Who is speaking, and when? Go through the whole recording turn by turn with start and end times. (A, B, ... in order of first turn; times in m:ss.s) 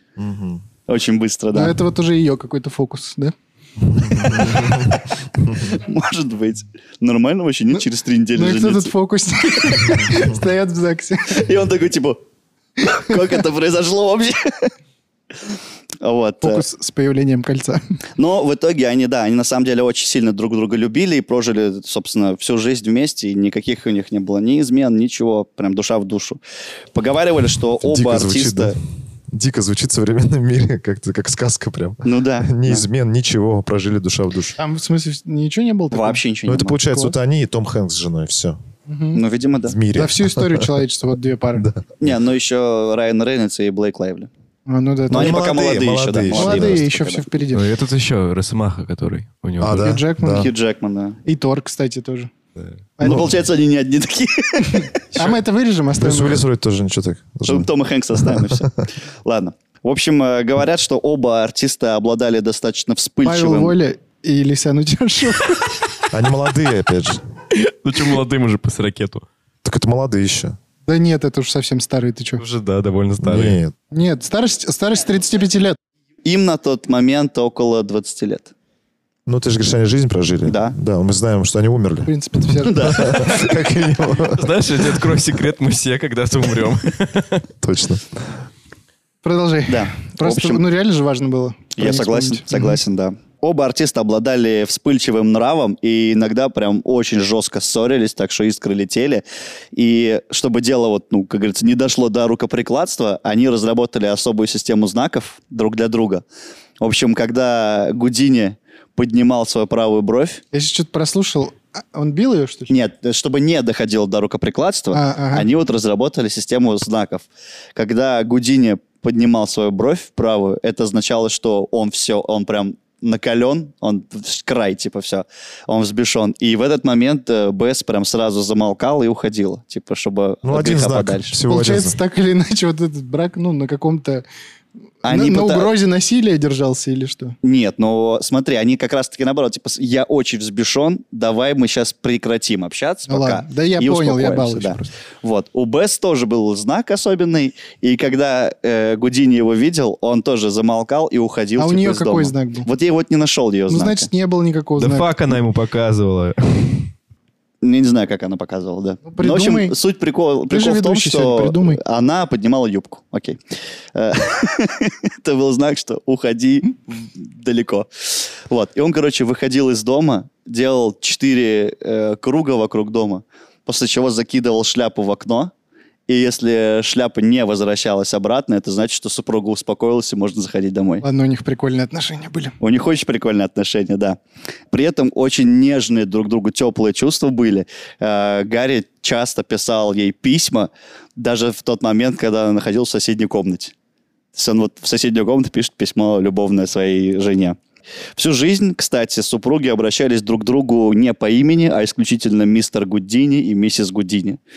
0:00.2-0:00.6 A
0:00.8-0:01.7 B
0:01.5-0:03.3 C
0:03.9-0:04.9 A
0:04.4-0:04.7 B
0:05.5-0:08.9 B
0:08.3-0:11.5 C
0:11.3-0:12.2 B
0:12.8-0:14.7 B
0:15.5-0:16.6 B
0:16.4-0:17.8 C
0:18.2-0:26.4 B
0:26.9-0:28.8 B
0:27.8-0:28.8 A
0:29.3-0:34.6 A
0:32.0-0:32.8 B
0:34.6-0:36.2 C
0:35.9-0:36.8 B
0:36.5-0:38.6 A
0:38.9-0:39.2 C
0:39.1-0:39.8 B
0:39.6-0:40.7 A
0:39.9-0:41.7 C
0:41.6-0:42.1 A
0:42.0-0:44.3 B
0:44.7-0:45.4 C
0:45.1-0:46.8 A
0:45.1-0:47.2 B
0:46.3-0:47.7 C
0:47.5-0:49.9 D
0:49.6-0:50.5 A
0:49.8-0:50.5 C
0:50.3-0:51.2 B
0:51.2-0:52.3 C
0:53.0-0:53.3 C
0:53.0-0:55.0 B
0:53.0-0:53.3 A
0:54.7-0:56.4 C
0:56.0-0:58.6 A
0:57.4-1:03.8 B
1:03.2-1:05.7 C
1:06.1-1:07.2 A
1:07.5-1:09.2 D
1:09.6-1:10.6 A
1:10.8-1:12.4 C
1:12.4-1:13.6 D
1:13.2-1:13.7 A
1:13.9-1:15.8 C
1:16.2-1:18.5 B
1:19.2-1:22.1 A
1:20.5-1:20.8 B
1:22.0-1:23.1 C
1:22.6-1:23.3 B
1:22.7-1:24.5 A
1:24.3-1:27.4 D
1:27.6-1:28.3 A
1:29.2-1:32.7 C
1:29.7-1:30.6 B
1:31.8-1:46.2 B
1:46.8-1:50.4 B
1:50.5-1:52.7 C
1:52.7-2:11.4 B
1:54.9-1:55.5 C
2:10.4-2:12.0 A
2:11.5-2:14.2 C
2:15.0-2:15.7 B
2:15.0-2:17.4 C
2:17.4-2:34.1 B
2:23.1-2:24.9 C
2:31.6-2:32.7 C
2:33.7-2:35.2 C
2:34.8-2:36.9 D
2:37.6-2:43.4 B
2:39.0-2:39.8 C
2:40.5-2:41.8 C
2:43.9-2:55.5 B
2:56.1-3:01.0 B
3:01.0-3:02.6 C
3:02.6-3:04.2 B
3:04.7-3:13.7 B
3:14.3-3:17.6 B
3:18.1-3:24.4 B